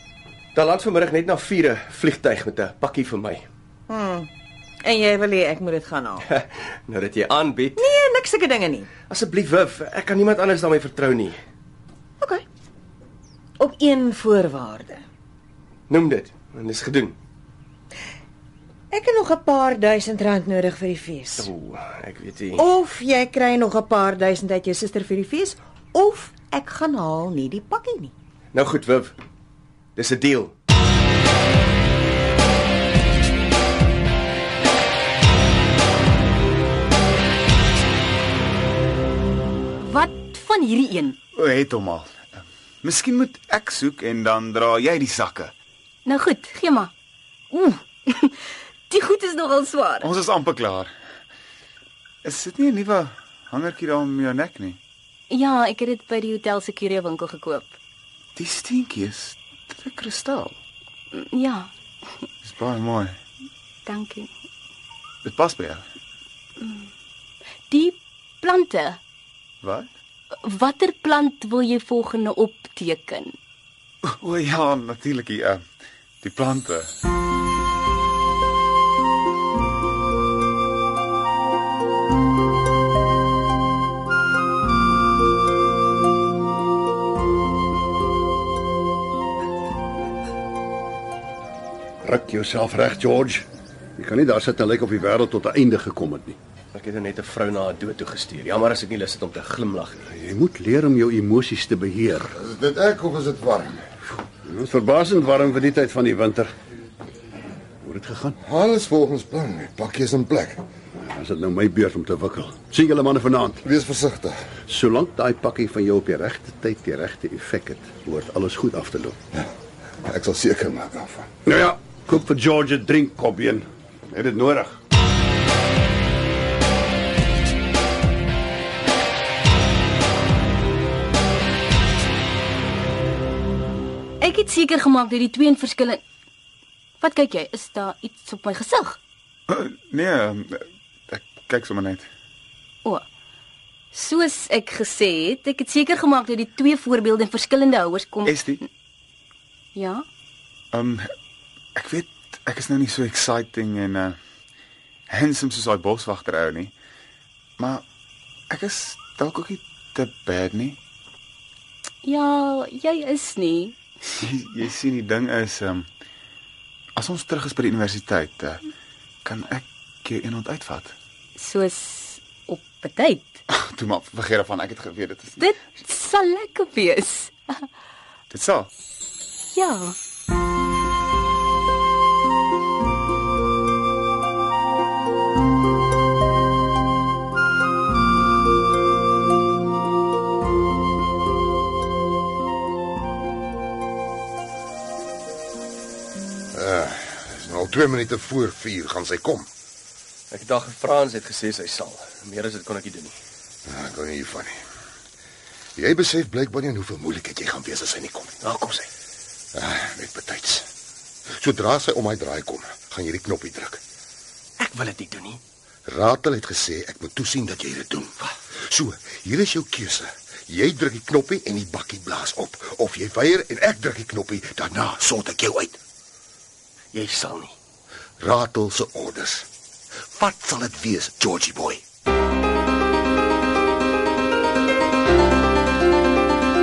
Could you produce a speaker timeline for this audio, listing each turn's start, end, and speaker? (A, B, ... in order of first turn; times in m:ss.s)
0:00.5-0:03.4 A
0:03.9-0:04.3 B
0:04.8-0:06.3 B
0:06.2-0:07.9 A
0:07.8-0:08.9 B
0:09.1-0:11.4 A
0:13.6-0:15.0 B
0:15.9-0:17.2 A
0:18.9-0:21.5 B
0:21.4-0:22.7 A
0:22.6-0:28.1 B
0:28.5-0:29.2 A
0:30.0-0:30.5 A
0:39.8-0:41.2 C
0:41.4-0:42.2 D
0:42.8-0:45.5 D
0:46.0-0:46.9 C
0:47.5-0:48.4 C
0:48.9-0:50.1 C
0:50.0-0:50.9 D
0:52.2-0:54.8 D
0:55.3-0:57.8 C
0:58.4-1:00.6 D
1:01.1-1:01.7 C
1:02.4-1:03.2 D
1:03.9-1:04.3 C
1:05.2-1:05.8 D
1:07.7-1:09.0 C
1:09.6-1:09.9 D
1:10.4-1:13.3 C
1:14.1-1:15.6 D
1:16.2-1:16.9 D
1:32.0-1:36.4 E
1:36.7-1:40.0 A
1:40.1-1:42.3 E
1:42.3-1:43.8 F
1:44.5-1:46.5 E
1:47.8-1:48.4 E
1:48.4-1:50.6 F
1:51.0-1:53.6 E
1:53.6-1:54.4 F
1:54.7-1:59.2 E
2:00.0-2:01.3 F
2:01.4-2:04.8 E
2:14.2-2:16.0 C
2:17.0-2:19.0 C
2:19.5-2:22.1 D
2:23.9-2:28.6 C
2:28.3-2:28.6 D
2:29.8-2:30.0 C
2:30.7-2:31.0 D
2:31.8-2:34.2 D
2:35.1-2:36.7 D
2:37.6-2:37.8 D
2:38.5-2:40.8 D
2:42.0-2:43.8 C
2:44.2-2:45.9 D
2:47.0-2:48.6 D
2:49.2-2:51.0 D
2:51.4-2:53.4 C
2:53.5-2:55.4 D
2:55.4-2:57.6 C
2:58.3-2:58.7 D
2:59.5-3:00.0 C
3:16.5-3:19.5 F
3:20.3-3:23.2 A
3:23.7-3:24.6 F
3:25.8-3:28.4 F
3:28.4-3:28.9 A
3:29.5-3:30.7 F
3:31.4-3:33.8 F
3:34.6-3:35.4 A
3:35.9-3:45.8 F
3:46.9-3:47.6 A
3:48.2-3:49.5 F
3:50.1-3:51.8 F